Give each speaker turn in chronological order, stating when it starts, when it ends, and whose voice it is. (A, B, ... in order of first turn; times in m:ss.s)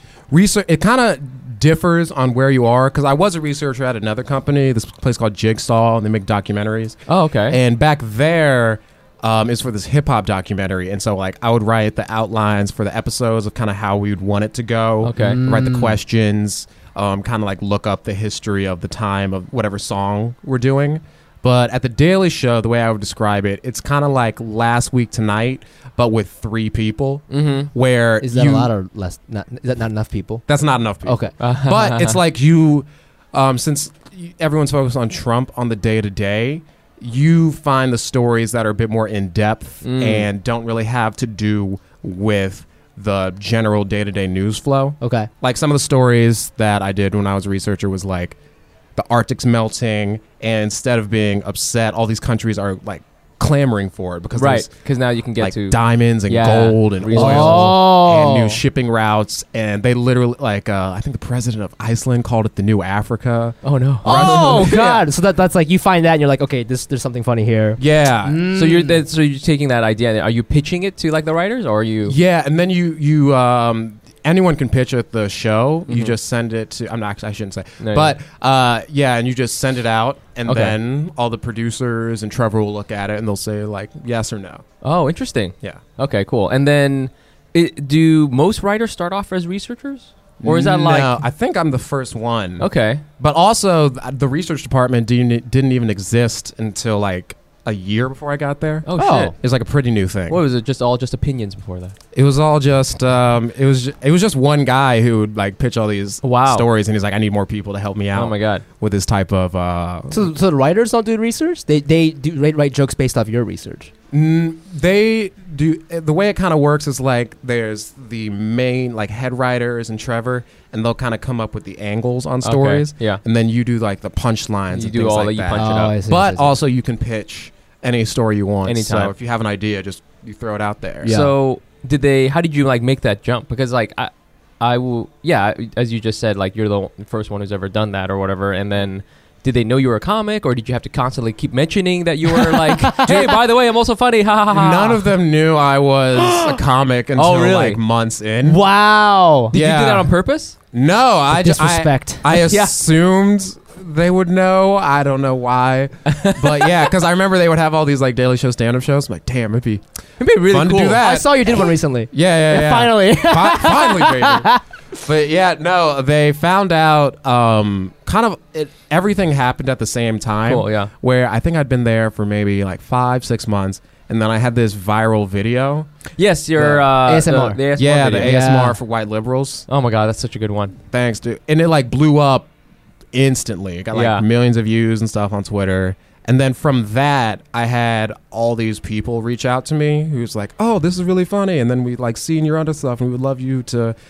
0:00.3-0:07.0 A
0:07.1-0:07.6 B
0:07.5-0:28.7 A
0:15.0-0:15.4 B
0:15.2-0:16.0 C
0:27.3-0:27.7 B
0:28.2-0:30.4 C
0:30.5-0:48.4 A
0:31.0-0:31.3 C
0:31.4-0:32.2 B
0:39.8-0:40.3 B
0:45.0-0:45.3 C
0:49.0-0:54.7 A
0:54.3-0:57.8 B
0:55.4-1:04.8 A
0:57.1-0:58.6 C
1:03.6-1:05.0 B
1:04.0-1:09.0 C
1:07.8-1:08.5 A
1:08.5-1:12.2 B
1:12.0-1:24.6 A
1:15.9-1:16.1 B
1:17.8-1:18.2 B
1:20.5-1:20.8 B
1:24.8-1:31.2 B
1:30.4-1:32.7 A
1:32.6-1:33.0 B
1:33.2-1:40.4 A
1:38.8-1:39.3 B
1:39.0-1:39.3 C
1:40.3-1:42.0 B
1:42.1-1:50.3 A
1:46.2-1:46.7 B
1:48.1-1:48.6 B
1:50.1-1:53.9 C
1:54.1-2:11.2 A
2:02.4-2:03.2 B
2:04.7-2:05.9 B
2:05.5-2:06.6 C
2:08.6-2:09.1 B
2:11.0-2:11.3 C
2:11.0-2:25.1 B
2:22.2-2:23.4 C
2:23.1-2:23.3 A
2:24.5-2:28.6 A
2:27.2-2:27.8 B
2:28.4-2:29.5 C
2:29.5-2:30.5 B
2:29.5-2:30.1 A
2:30.7-2:39.8 A
2:31.3-2:32.2 C
2:32.3-2:32.8 B
2:36.1-2:36.8 B
2:40.2-2:41.1 B
2:40.4-2:55.9 A
2:41.0-2:44.6 C
2:50.4-2:50.9 B
2:56.2-2:58.4 B
2:56.6-2:57.6 C
2:57.8-2:59.6 A
2:58.1-2:58.8 C
2:59.7-3:00.8 B
3:00.9-3:02.5 A
3:03.1-3:13.9 A
3:03.9-3:04.2 B